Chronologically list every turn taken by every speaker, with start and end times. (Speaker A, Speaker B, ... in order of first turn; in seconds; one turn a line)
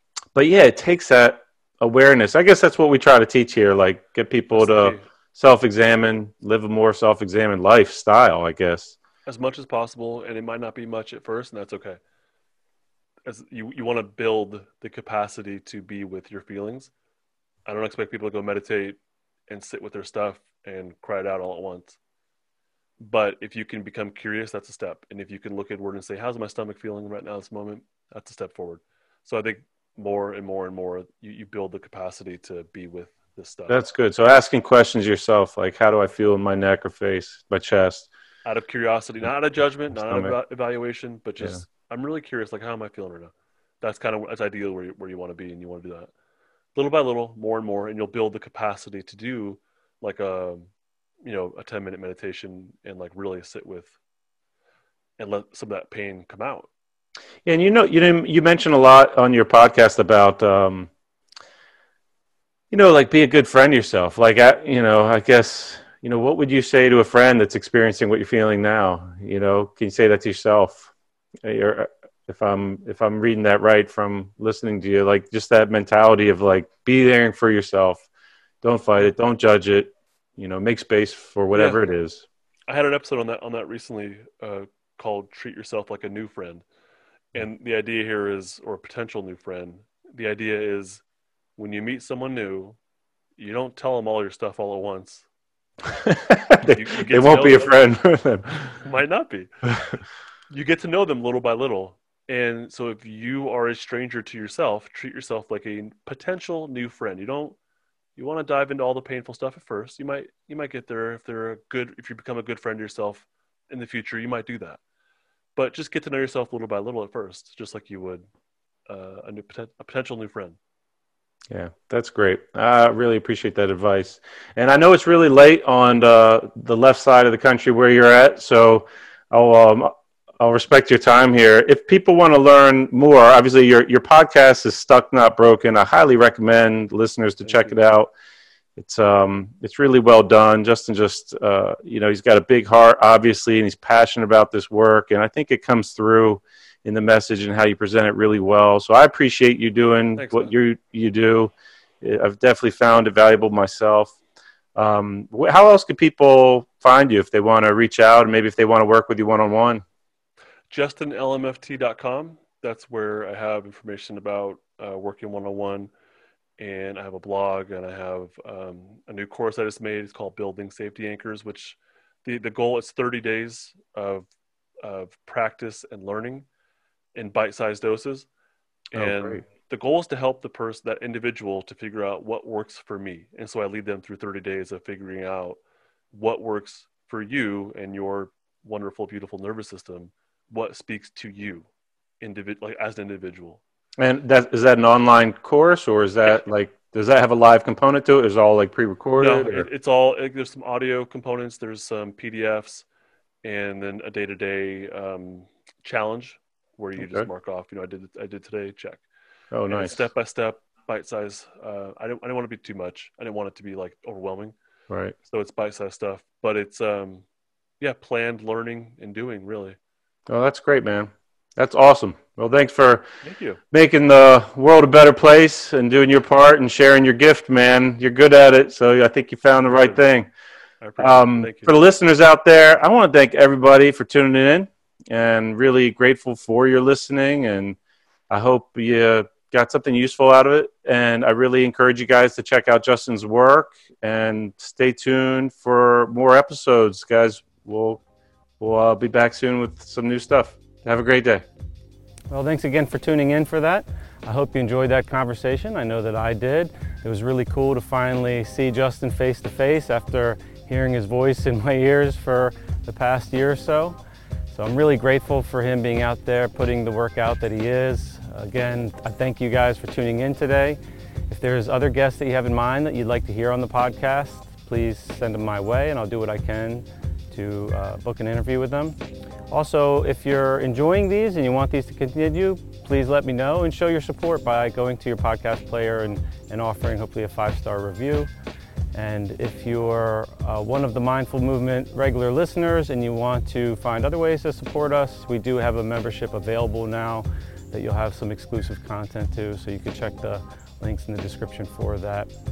Speaker A: 0.3-8.9
Speaker B: 4.5-5.0
Speaker B: 9.2-12.0
Speaker B: 13.2-16.9
Speaker B: 17.6-22.0
Speaker B: 23.0-33.8
Speaker A: 33.7-38.1
Speaker B: 38.4-46.1
Speaker A: 40.0-40.3
Speaker B: 46.7-50.7
Speaker B: 51.2-53.9
Speaker B: 55.2-56.7
Speaker A: 57.4-60.9
Speaker A: 62.7-70.9
Speaker A: 71.4-78.0
Speaker A: 78.6-82.2
Speaker B: 81.5-81.8
Speaker B: 82.7-86.6
Speaker B: 87.3-91.0
Speaker B: 91.6-92.8
Speaker B: 93.4-95.2
Speaker A: 96.0-98.8
Speaker B: 96.7-97.8
Speaker B: 98.8-99.5
Speaker B: 100.5-107.6
Speaker B: 108.2-114.8
Speaker B: 115.5-118.2
Speaker B: 118.9-120.6
Speaker A: 121.5-138.1
Speaker B: 137.4-137.7
Speaker A: 138.8-154.1
Speaker B: 150.2-150.5
Speaker A: 154.8-159.8
Speaker B: 160.7-165.9
Speaker B: 166.6-174.3
Speaker B: 174.8-176.4
Speaker B: 177.1-178.3
Speaker B: 178.9-185.6
Speaker A: 178.9-179.4
Speaker B: 186.1-191.7
Speaker B: 192.2-193.6
Speaker A: 194.0-199.7
Speaker B: 199.2-202.8
Speaker B: 203.4-209.0
Speaker A: 207.0-207.3
Speaker A: 209.5-210.0
Speaker B: 209.7-214.5
Speaker A: 214.9-215.1
Speaker B: 215.2-217.2
Speaker B: 217.8-219.8
Speaker A: 220.3-223.1
Speaker B: 223.2-223.6
Speaker A: 223.7-230.3
Speaker B: 229.7-230.0
Speaker B: 230.8-231.8
Speaker A: 231.0-237.8
Speaker A: 238.3-248.0
Speaker A: 248.6-251.4
Speaker C: 252.3-264.0
Speaker C: 264.5-288.3
Speaker C: 288.9-302.3